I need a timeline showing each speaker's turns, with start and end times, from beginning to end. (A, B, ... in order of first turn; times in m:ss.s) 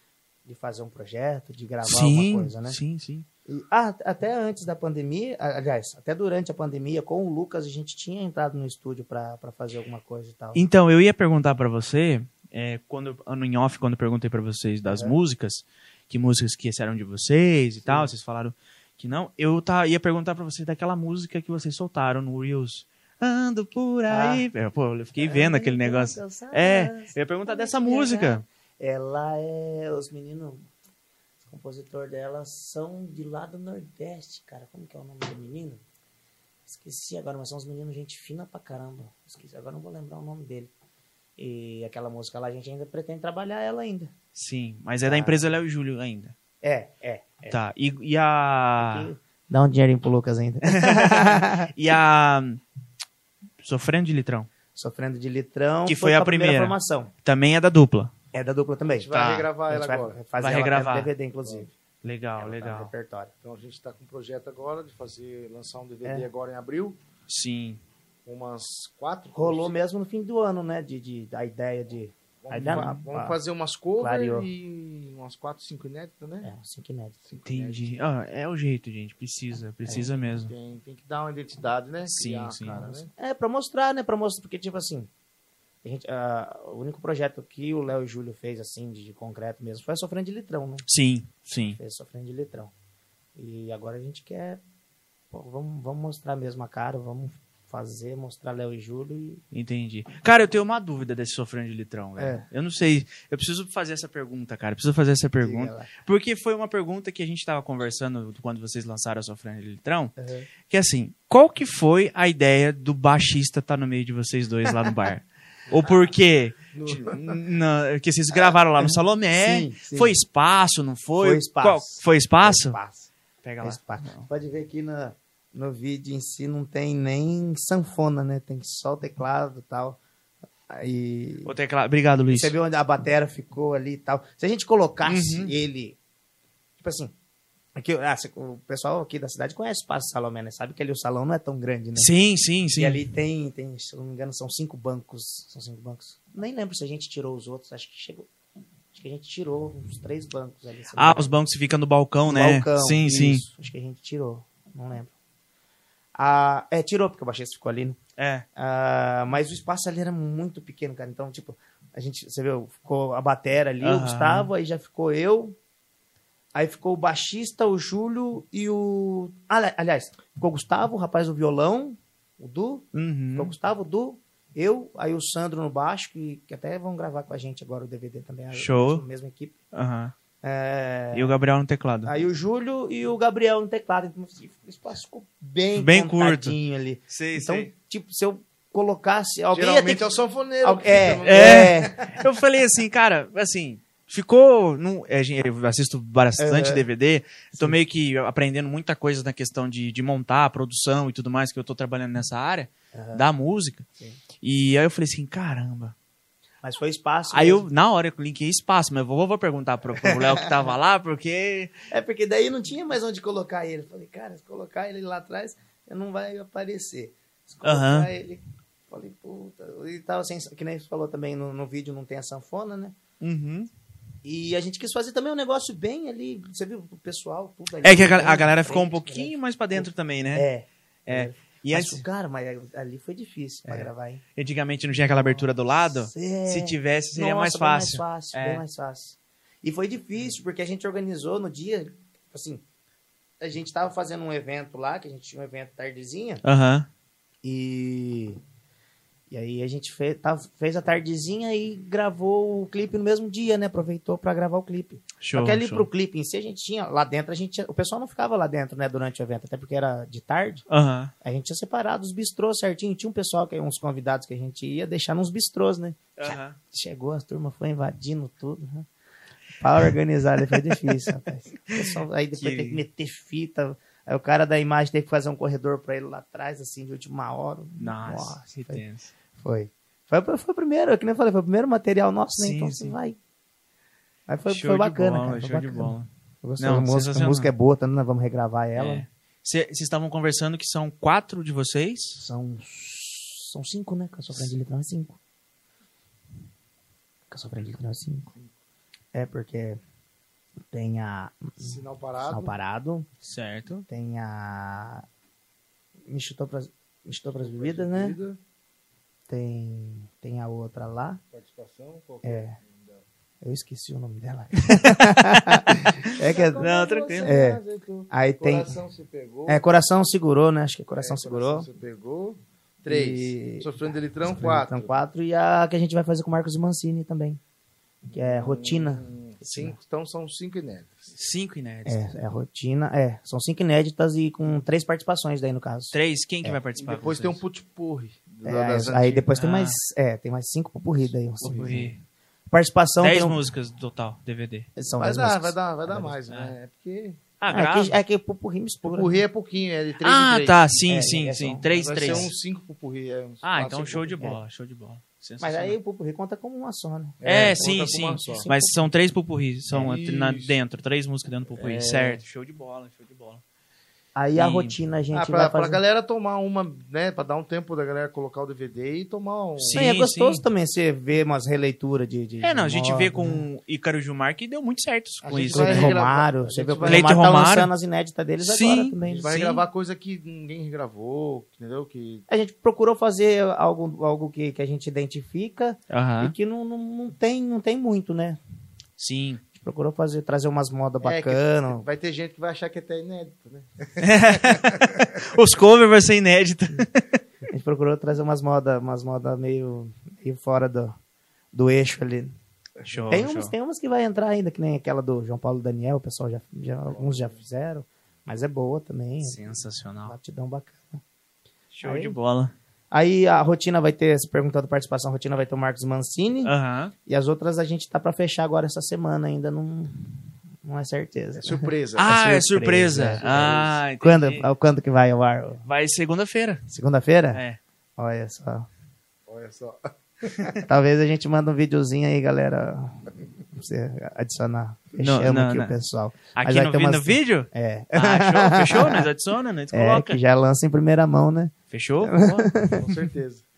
0:00.5-0:02.8 A
0:01.8-0:03.3 B
0:03.5-0:10.6 A
0:10.5-0:28.4 B
0:14.9-0:15.2 A
0:17.8-0:18.1 A
0:24.1-0:24.5 A
0:25.2-0:30.7 A
0:31.4-0:35.8 A
0:36.7-0:40.7 A
0:41.4-0:44.1 A
0:44.4-0:46.3 B
0:45.0-0:45.5 A
0:46.6-0:47.6 A
0:47.5-0:49.1 B
0:48.8-0:51.7 A
0:50.7-0:52.6 B
0:53.6-0:54.5 B
0:54.8-0:57.1 A
0:55.9-0:58.1 B
0:58.3-0:59.1 A
0:58.8-1:00.2 C
0:59.1-0:59.5 B
0:59.7-1:01.7 A
1:00.4-1:01.1 B
1:02.0-1:02.9 B
1:02.4-1:03.3 A
1:03.4-1:07.0 C
1:07.3-1:07.8 B
1:08.2-1:09.8 C
1:09.3-1:13.4 A
1:12.4-1:16.5 C
1:12.5-1:13.0 B
1:14.0-1:14.5 A
1:16.4-1:17.2 A
1:17.2-1:18.0 C
1:17.4-1:20.5 B
1:19.9-1:23.1 C
1:22.0-1:23.0 B
1:23.1-1:25.1 A
1:25.8-1:30.8 A
1:30.9-1:31.8 B
1:31.7-1:32.7 A
1:33.4-1:34.6 A
1:35.3-1:39.4 A
1:39.5-2:02.8 B
1:42.2-1:42.5 A
1:45.4-1:45.9 A
1:50.2-1:50.5 A
1:56.8-1:57.2 C
1:56.8-1:57.3 A
1:58.3-2:00.2 A
2:01.2-2:03.1 A
2:03.4-2:04.3 B
2:03.6-2:10.0 A
2:10.7-2:11.5 A
2:11.5-2:12.5 B
2:12.3-2:16.0 A
2:15.0-2:15.5 B
2:16.8-2:17.1 A
2:17.8-2:22.1 A
2:22.0-2:23.0 B
2:22.8-2:28.3 A
2:28.9-2:31.3 A
2:31.0-2:33.4 B
2:32.3-2:35.1 A
2:36.2-2:38.0 A
2:38.2-2:38.4 B
2:38.6-2:45.6 A
2:43.8-2:44.5 B
2:46.6-2:59.5 A
2:52.9-2:53.5 B
2:58.5-2:59.0 B
2:59.7-3:00.1 B
3:00.4-3:01.4 A
3:01.1-3:02.1 B
3:02.0-3:10.1 A
3:05.8-3:06.6 B
3:07.1-3:07.7 B
3:09.5-3:11.9 C
3:10.6-3:12.2 A
3:11.2-3:23.9 B
3:16.4-3:16.9 A
3:22.9-3:23.2 A
3:24.4-3:26.0 B
3:26.6-3:27.7 A
3:27.3-3:31.7 B
3:30.0-3:30.5 A
3:31.9-3:43.0 A
3:37.6-3:38.1 B
3:43.2-3:43.7 B
3:44.2-3:54.2 A
3:47.8-3:50.5 B
3:51.1-3:52.0 B
3:53.7-3:58.6 B
3:55.0-4:02.6 A
4:03.4-4:06.4 A
4:06.4-4:06.9 B
4:07.4-4:08.4 A
4:09.3-4:20.6 A
4:15.2-4:15.9 B
4:20.7-4:21.1 B
4:21.2-4:28.9 A
4:26.2-4:26.6 B
4:29.6-4:38.8 A
4:30.6-4:31.0 B
4:31.7-4:32.8 B
4:37.8-4:39.1 B
4:39.4-4:43.2 A
4:42.4-4:43.0 B
4:44.3-4:49.0 A
4:44.5-4:47.5 B
4:48.8-4:52.2 B
4:52.2-4:55.2 A
4:57.3-4:58.3 A
4:59.1-4:59.8 A
5:00.7-5:03.1 A
5:01.6-5:02.6 C
5:03.2-5:03.9 B
5:03.9-5:05.1 A
5:06.1-5:08.2 A
5:07.4-5:08.4 C
5:09.3-5:11.2 A
5:11.3-5:13.0 C
5:12.2-5:12.6 A
5:13.4-5:16.6 A
5:14.6-5:17.3 B
5:16.1-5:19.6 C
5:17.2-5:18.8 A
5:19.5-5:21.7 A
5:21.0-5:25.0 C
5:22.9-5:27.4 A
5:28.1-5:31.1 C
5:28.1-5:29.7 A
5:31.2-5:32.0 B
5:31.9-5:36.6 A
5:35.9-5:37.4 B
5:36.8-5:39.3 C
5:38.4-5:41.9 A
5:39.4-5:39.8 B
5:41.4-5:41.9 C
5:41.4-5:42.0 B
5:42.5-5:43.4 A
5:43.0-5:44.7 B
5:44.8-5:46.2 A
5:45.0-5:47.2 C
5:46.3-5:46.6 B
5:47.4-5:48.0 B
5:47.5-5:49.2 A
5:48.8-5:50.6 C
5:50.0-5:52.3 B
5:50.9-5:52.3 A
5:51.7-5:54.2 C
5:53.4-5:55.8 B
5:55.4-5:58.8 A
5:57.2-5:58.5 C
5:57.2-6:03.4 B
5:59.7-6:00.6 C
6:01.6-6:02.2 C
6:04.2-6:05.8 A
6:04.4-6:04.8 B
6:05.1-6:09.9 C
6:09.6-6:10.4 B
6:09.7-6:13.5 A
6:12.4-6:16.0 B
6:15.2-6:17.2 C
6:15.5-6:19.3 A
6:16.8-6:17.7 B
6:18.4-6:19.6 B
6:19.0-6:22.2 C
6:22.3-6:28.4 A
6:25.9-6:26.3 B
6:29.0-6:29.4 B
6:29.6-6:31.8 A
6:31.0-6:35.0 C
6:34.0-6:37.1 B
6:37.5-6:41.0 A
6:41.5-6:42.3 A
6:42.8-6:43.5 B
6:43.1-6:51.0 A
6:46.9-6:47.4 C
6:49.2-6:50.2 B
6:51.7-6:52.5 B
6:51.8-6:52.2 A
6:52.9-6:56.5 A
6:56.4-6:56.9 B
6:57.1-7:05.6 A
7:01.4-7:02.2 C
7:02.0-7:04.5 B
7:03.1-7:03.8 C
7:05.6-7:06.6 B
7:06.7-7:07.4 A
7:07.3-7:07.6 B
7:08.0-7:08.7 A
7:09.3-7:10.6 C
7:10.6-7:19.1 A
7:15.0-7:15.8 B
7:16.3-7:20.2 B
7:19.7-7:22.8 A
7:21.7-7:22.5 B
7:22.8-7:23.4 C